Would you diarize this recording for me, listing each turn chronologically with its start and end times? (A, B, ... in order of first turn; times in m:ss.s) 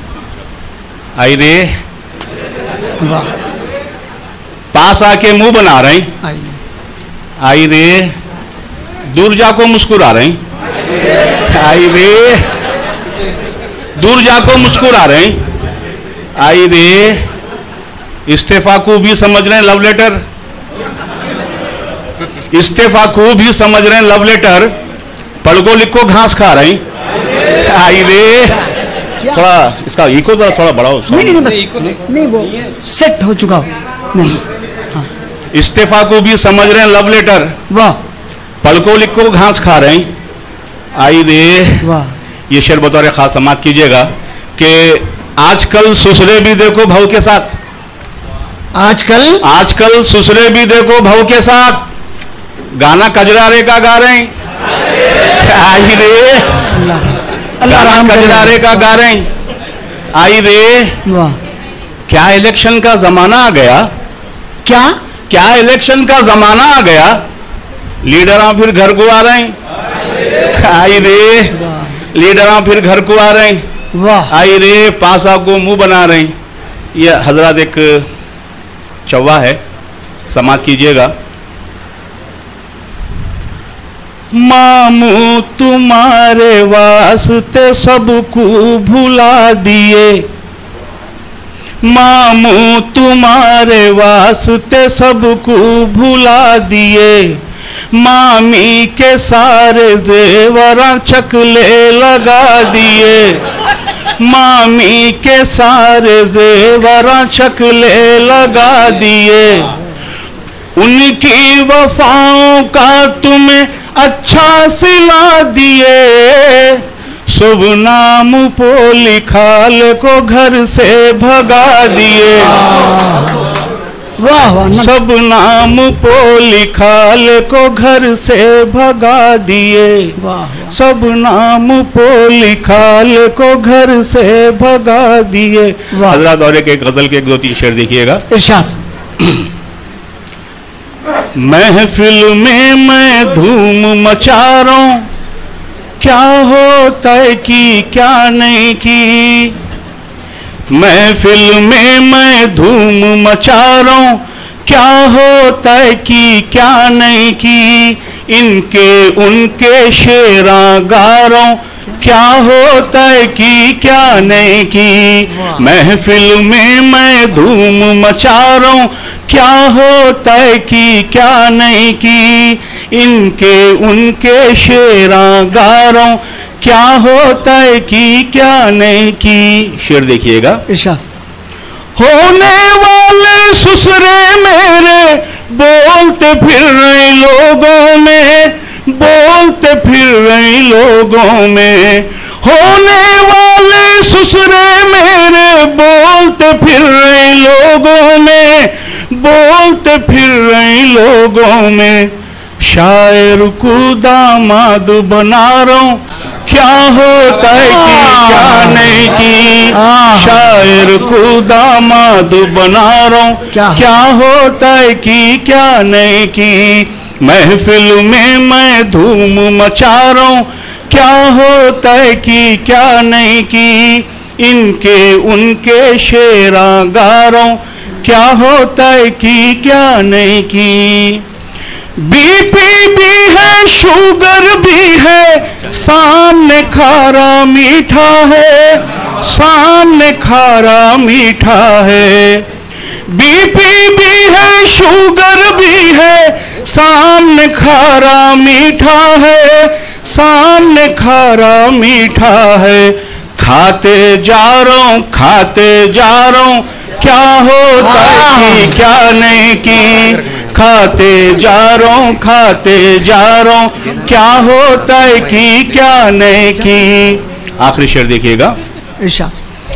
0:01.2-0:01.7 A
0:03.0-0:03.3 B
0:04.7-0:06.1 A
0:06.2-0:06.6 B
0:07.4-0:08.1 A
0:09.1-0:10.4 A
0:11.5-0:12.5 A
0:14.0-0:15.4 A
0:16.4-0:17.3 A
0:18.3-0:20.2 A
0:22.5-0:24.7 A
0:25.4-0:26.8 A
0:27.5-0:28.6 A
0:29.3-0:31.5 A
0:31.1-0:34.4 B
0:35.5-0:37.5 A
0:37.7-0:38.0 B
0:38.6-0:40.1 A
0:41.0-0:41.9 A
0:41.8-0:42.1 B
0:42.5-0:47.6 A
0:48.7-0:49.4 B
0:49.4-0:51.8 A
0:52.8-0:54.3 A
0:55.4-0:56.7 A
0:56.7-0:58.8 B
0:57.6-0:59.3 A
1:00.1-1:01.0 A
1:01.0-1:01.4 B
1:02.1-1:03.9 A
1:04.6-1:04.9 B
1:05.3-1:07.2 A
1:08.0-1:09.6 A
1:10.5-1:11.6 A
1:12.1-1:13.6 A
1:13.9-1:14.3 B
1:14.3-1:16.3 A
1:16.9-1:18.1 A
1:19.1-1:19.6 A
1:20.3-1:21.1 A
1:24.3-1:30.2 A
1:31.8-1:37.4 A
1:37.9-1:43.4 A
1:44.2-1:49.7 A
1:50.8-2:02.6 A
2:02.5-2:03.5 B
2:04.2-2:04.9 B
2:04.7-2:10.2 A
2:10.2-2:10.7 B
2:10.7-2:18.2 A
2:15.9-2:16.2 B
2:18.3-2:18.8 B
2:21.4-2:25.0 A
2:26.0-2:29.5 A
2:30.7-3:00.6 A
3:00.7-3:01.0 B
3:02.0-3:51.2 A
3:27.6-3:28.8 B
3:29.7-3:30.4 B
3:33.5-3:33.8 B
3:52.0-4:02.4 A
4:03.1-4:28.5 A
4:17.8-4:18.8 B
4:29.0-4:29.4 B